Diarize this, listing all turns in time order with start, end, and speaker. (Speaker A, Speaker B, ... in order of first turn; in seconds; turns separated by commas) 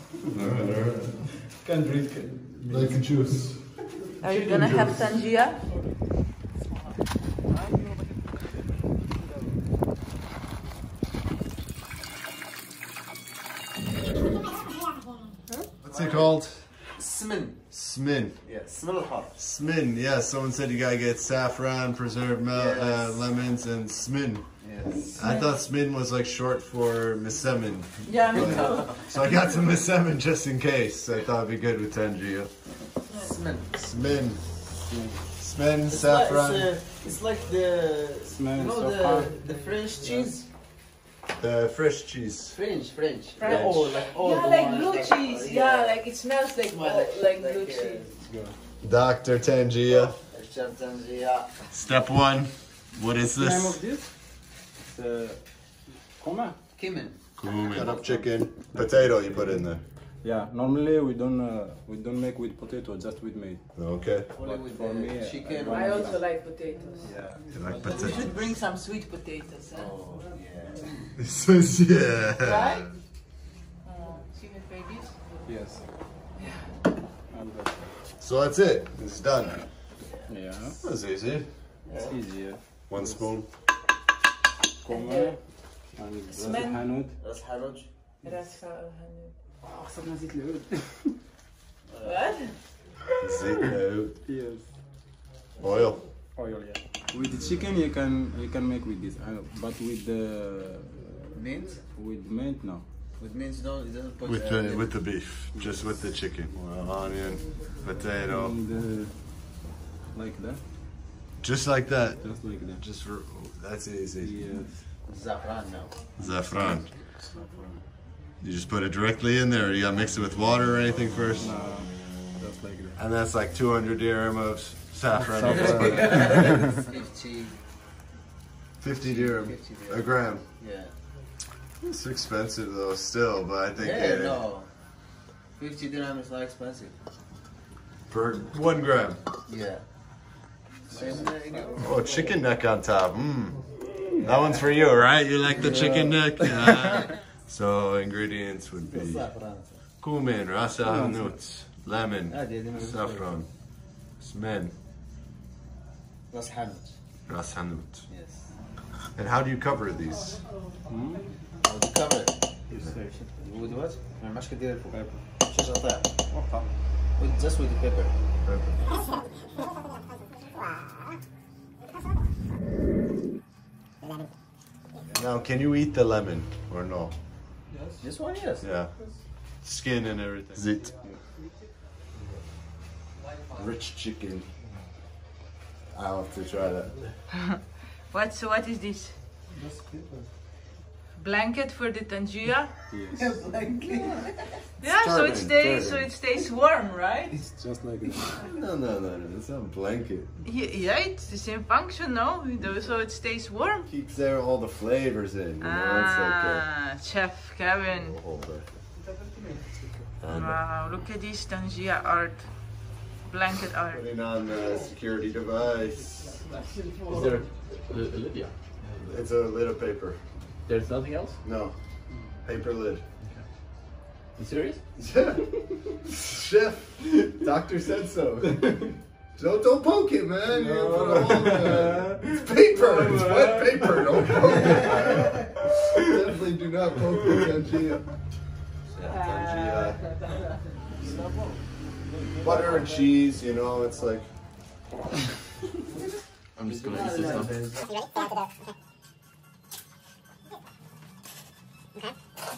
Speaker A: 0.3-1.3, Speaker B: 1.5-3.0, Speaker A: 2.7-5.1, Speaker C: 4.2-5.6, Speaker A: 15.8-16.8, Speaker D: 15.9-16.3, Speaker D: 16.9-17.6, Speaker A: 17.7-18.5, Speaker D: 18.4-19.4, Speaker A: 19.4-24.4, Speaker D: 22.5-23.2, Speaker D: 24.6-25.3, Speaker A: 25.1-32.5, Speaker C: 25.2-25.5, Speaker C: 28.1-29.1, Speaker D: 28.3-29.0, Speaker D: 33.1-33.9, Speaker A: 33.8-34.5, Speaker B: 34.8-35.2, Speaker A: 35.4-36.7, Speaker D: 35.9-40.5, Speaker B: 38.2-40.3, Speaker A: 41.4-42.6, Speaker D: 42.5-48.3, Speaker C: 43.4-48.0, Speaker A: 43.4-43.9, Speaker B: 48.3-48.5, Speaker A: 48.8-50.2, Speaker D: 49.9-51.6, Speaker A: 51.7-53.8, Speaker B: 53.4-54.2, Speaker B: 54.8-55.5, Speaker B: 56.1-56.6, Speaker D: 56.7-57.2, Speaker A: 57.4-59.8, Speaker B: 57.7-59.6, Speaker B: 60.2-63.6, Speaker A: 63.8-64.3, Speaker D: 64.3-66.2, Speaker B: 64.4-66.2, Speaker C: 65.7-67.1, Speaker B: 67.0-68.3, Speaker A: 67.5-68.3, Speaker C: 67.8-70.0, Speaker D: 69.7-71.0, Speaker A: 71.2-72.8, Speaker C: 72.3-72.9, Speaker C: 73.8-75.2, Speaker B: 75.4-75.8, Speaker C: 76.4-76.7, Speaker B: 77.3-77.9, Speaker A: 78.2-79.7, Speaker B: 80.3-80.8, Speaker A: 80.8-81.5, Speaker D: 81.8-82.2, Speaker B: 82.0-83.3, Speaker A: 82.9-83.5, Speaker B: 84.8-85.4, Speaker C: 84.9-85.4, Speaker B: 85.9-87.1, Speaker C: 86.3-86.8, Speaker D: 87.2-87.9, Speaker C: 88.2-89.3, Speaker B: 89.6-91.1, Speaker D: 91.9-92.2, Speaker C: 92.0-92.5, Speaker A: 93.2-94.2, Speaker B: 94.2-94.7, Speaker A: 95.6-96.0, Speaker B: 96.3-102.8, Speaker A: 97.2-97.6, Speaker D: 101.3-101.8, Speaker D: 103.2-105.0, Speaker A: 104.2-108.5, Speaker B: 105.5-105.9, Speaker B: 108.2-109.5, Speaker B: 110.1-110.6, Speaker A: 111.4-114.4, Speaker B: 112.2-112.8, Speaker B: 114.2-114.8, Speaker D: 115.0-116.0, Speaker A: 116.2-116.9, Speaker B: 116.2-117.8, Speaker A: 118.4-121.6, Speaker B: 121.4-123.0, Speaker A: 123.0-126.5, Speaker B: 125.4-126.6, Speaker D: 125.4-127.6, Speaker A: 128.8-130.4, Speaker D: 129.0-130.9, Speaker A: 131.8-134.4, Speaker D: 133.8-134.7, Speaker D: 135.6-136.9, Speaker A: 138.1-139.2, Speaker D: 139.5-139.8, Speaker B: 140.9-141.3, Speaker D: 140.9-142.3, Speaker A: 141.8-143.7, Speaker A: 144.2-149.3, Speaker D: 145.5-147.0, Speaker D: 148.8-149.8, Speaker A: 150.0-153.5, Speaker B: 150.8-151.4, Speaker D: 152.3-153.0, Speaker A: 154.2-154.7, Speaker D: 156.3-157.0, Speaker A: 157.3-158.1, Speaker D: 158.1-158.5, Speaker A: 159.1-160.4, Speaker B: 160.9-161.3, Speaker D: 161.6-162.4, Speaker B: 162.8-163.0, Speaker D: 163.4-166.1, Speaker B: 164.9-165.2, Speaker B: 166.3-166.7, Speaker D: 167.2-168.1, Speaker A: 168.4-168.8, Speaker A: 175.1-177.1, Speaker B: 177.7-178.0, Speaker D: 178.0-178.7, Speaker A: 178.6-178.9, Speaker A: 179.6-180.9, Speaker A: 183.5-184.5, Speaker A: 185.9-187.0, Speaker C: 188.1-189.1, Speaker D: 189.5-190.3, Speaker C: 191.2-192.7, Speaker B: 192.9-193.3, Speaker D: 193.1-194.7, Speaker C: 194.8-197.4, Speaker A: 194.8-196.1, Speaker B: 197.4-198.3, Speaker A: 198.3-200.3, Speaker C: 200.4-203.9, Speaker A: 203.9-206.7, Speaker C: 205.6-208.2, Speaker A: 207.9-208.7, Speaker A: 210.2-210.6, Speaker C: 210.3-214.0, Speaker A: 213.9-216.4, Speaker E: 217.0-219.0, Speaker A: 219.0-220.2, Speaker E: 220.7-221.4, Speaker A: 221.4-221.7, Speaker A: 222.4-223.0, Speaker E: 224.4-224.8, Speaker A: 225.0-225.4, Speaker A: 226.0-228.8, Speaker A: 229.3-238.1, Speaker B: 230.4-235.0, Speaker A: 238.9-240.0, Speaker C: 239.1-240.0, Speaker B: 242.1-243.0, Speaker A: 242.4-244.3, Speaker E: 246.6-247.6, Speaker D: 246.6-247.9